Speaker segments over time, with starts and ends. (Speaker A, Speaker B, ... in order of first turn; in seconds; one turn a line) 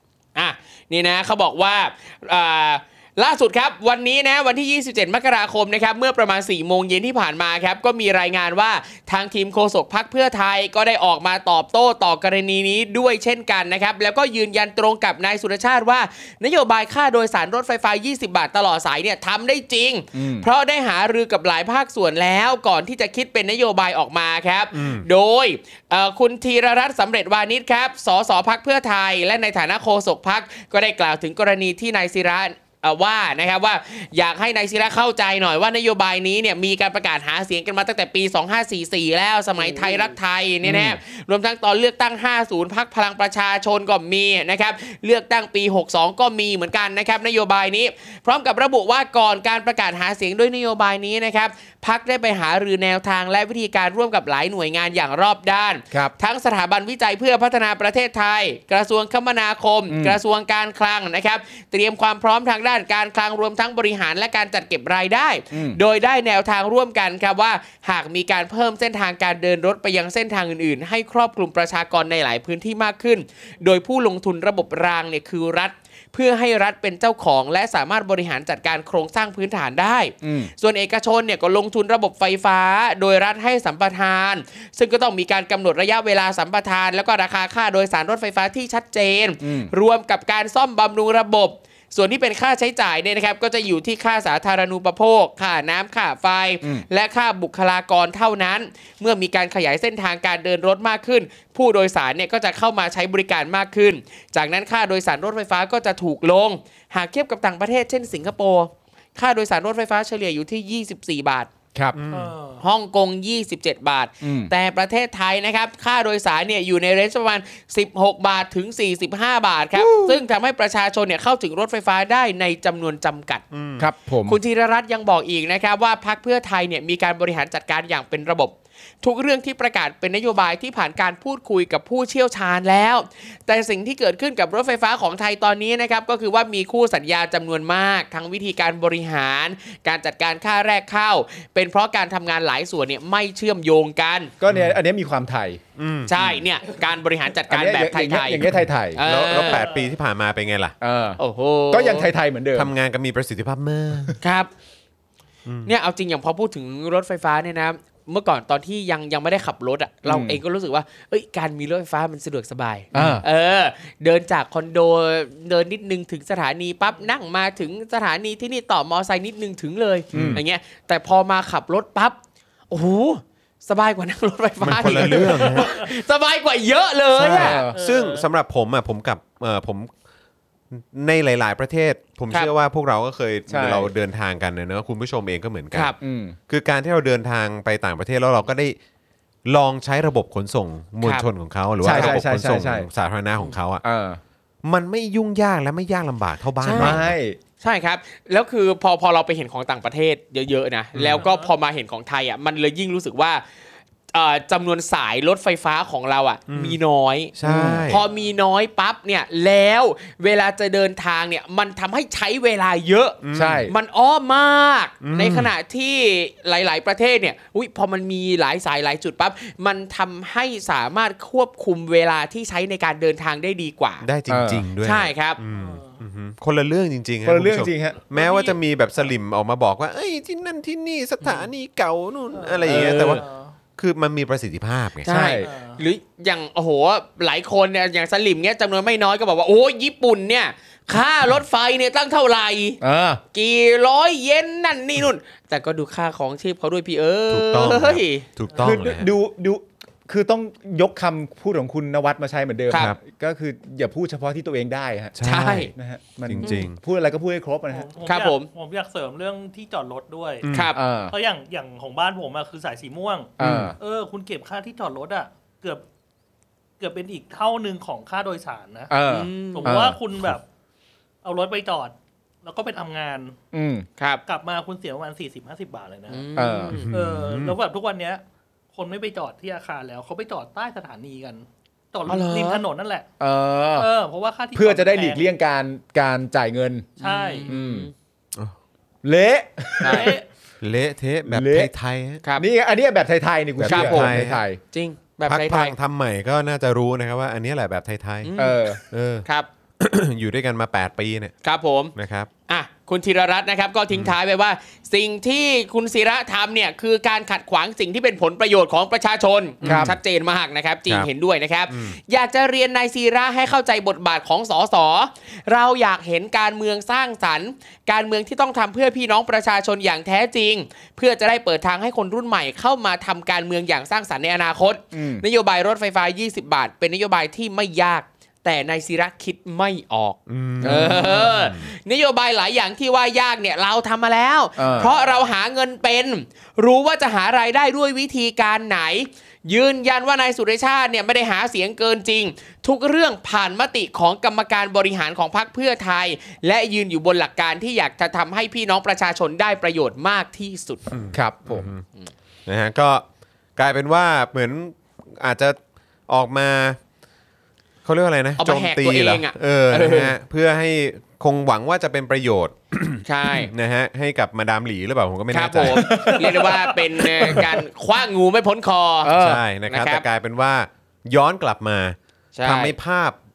Speaker A: 0.3-111.5
Speaker B: 20.1-20.5
Speaker C: 24.7-25.1
Speaker B: 40.6-41.0
Speaker B: 59.9-60.2
Speaker B: 65.5-65.8
Speaker B: 80.2-80.5
Speaker B: 89.4-89.7
Speaker C: 111.9-112.3
Speaker D: 112.1-112.6
Speaker A: 112.6-123.4
Speaker B: 114.2-114.5
Speaker C: 119.8-120.2
Speaker C: 123.5-123.9
Speaker B: 123.8-124.4
Speaker A: 124.2-144.3
Speaker B: 144.4-145.6
Speaker C: 145.8-146.3
Speaker A: 146.1-149.6
Speaker B: 147.5-149.0
Speaker C: 149.0-150.8
Speaker D: 149.4-149.9
Speaker B: 150.8-151.2
Speaker A: 151.2-152.1
Speaker B: 151.7-152.7
Speaker C: 152.6-154.2
Speaker A: 154.2-154.5
Speaker C: 155.5-155.7
Speaker A: 155.7-172.2
Speaker B: 160.1-160.4
Speaker B: 162.9-163.2
Speaker C: 170.1-170.4
Speaker B: 170.1-170.4
Speaker A: 172.7-177.7
Speaker C: 174.6-175.7
Speaker B: 174.8-175.4
Speaker B: 177.2-177.8
Speaker C: 177.4-179.9
Speaker D: 177.7-178.3
Speaker C: 180.7-185.9
Speaker B: 183.5-183.9
Speaker B: 186.0-186.4
Speaker C: 186.5-188.8
Speaker C: 189.5-193.8
Speaker A: 191.0-191.3
Speaker B: 191.8-192.9
Speaker A: 191.9-192.2
Speaker B: 193.8-194.2
Speaker C: 194.6-197.2
Speaker A: 196.6-197.0
Speaker B: 196.7-197.4
Speaker A: 197.6-203.4
Speaker C: 200.9-201.2
Speaker D: 201.2-201.5
Speaker A: 204.1-224.1
Speaker C: 206.5-206.8
Speaker C: 207.3-208.0
Speaker B: 207.4-207.9
Speaker C: 213.2-213.7
Speaker B: 213.3-213.7
Speaker C: 215.0-215.5
Speaker C: 224.0-233.2
Speaker B: 224.3-224.7
Speaker A: 224.8-225.4
Speaker D: 225.5-226.0
Speaker B: 227.2-228.0
Speaker D: 228.1-229.1
Speaker D: 232.3-233.5
Speaker A: 232.7-233.2
Speaker C: 233.8-235.1
Speaker A: 235.1-242.8
Speaker B: 235.1-235.5
Speaker D: 235.4-235.8
Speaker B: 242.8-243.2
Speaker A: 243.3-248.3
Speaker C: 247.3-249.1
Speaker B: 248.6-255.2
Speaker C: 252.7-253.0
Speaker C: 255.2-255.7
Speaker A: 255.2-255.7
Speaker B: 255.7-257.9
Speaker C: 256.3-256.8
Speaker D: 257.7-260.5
Speaker A: 258.1-258.5
Speaker C: 260.4-260.7
Speaker A: 260.5-260.8
Speaker B: 260.8-261.1
Speaker D: 261.1-265.8
Speaker B: 263.4-263.8
Speaker C: 263.4-263.7
Speaker D: 266.8-268.9
Speaker B: 268.9-270.0
Speaker A: 269.0-269.8
Speaker D: 269.5-270.4
Speaker D: 271.2-273.4
Speaker B: 273.5-273.9
Speaker D: 274.3-276.3
Speaker A: 276.1-276.9
Speaker B: 276.4-276.8
Speaker C: 276.7-277.6
Speaker D: 276.9-278.2
Speaker D: 278.7-283.1
Speaker A: 282.1-282.6
Speaker B: 283.2-283.9
Speaker D: 283.8-285.3
Speaker B: 284.6-286.9
Speaker D: 287.0-287.5
Speaker A: 287.0-287.9
Speaker B: 287.5-287.9
Speaker B: 289.0-290.1
Speaker A: 289.8-290.2
Speaker D: 289.8-290.2
Speaker C: 290.6-292.2
Speaker B: 291.3-291.7
Speaker B: 292.4-294.6
Speaker C: 293.6-294.4
Speaker A: 293.7-294.2
Speaker A: 294.7-295.7
Speaker C: 295.3-298.3
Speaker A: 298.2-299.5
Speaker B: 298.4-298.8
Speaker C: 298.9-299.2
Speaker C: 299.8-301.3
Speaker A: 301.4-301.9
Speaker C: 301.9-302.3
Speaker A: 302.5-350.9
Speaker C: 309.6-310.0
Speaker B: 309.6-309.9
Speaker C: 311.7-312.0
Speaker B: 324.9-325.2
Speaker C: 330.3-331.7
Speaker B: 330.6-331.3
Speaker B: 334.6-334.9
Speaker C: 350.9-351.8
Speaker B: 351.1-351.7
Speaker C: 352.5-353.0
Speaker C: 353.6-355.6
Speaker C: 356.1-356.8
Speaker C: 357.9-365.9
Speaker A: 358.4-360.1
Speaker A: 363.1-363.5
Speaker A: 365.3-370.0
Speaker B: 365.6-367.7
Speaker B: 369.0-369.4
Speaker C: 369.2-373.2
Speaker A: 372.4-372.8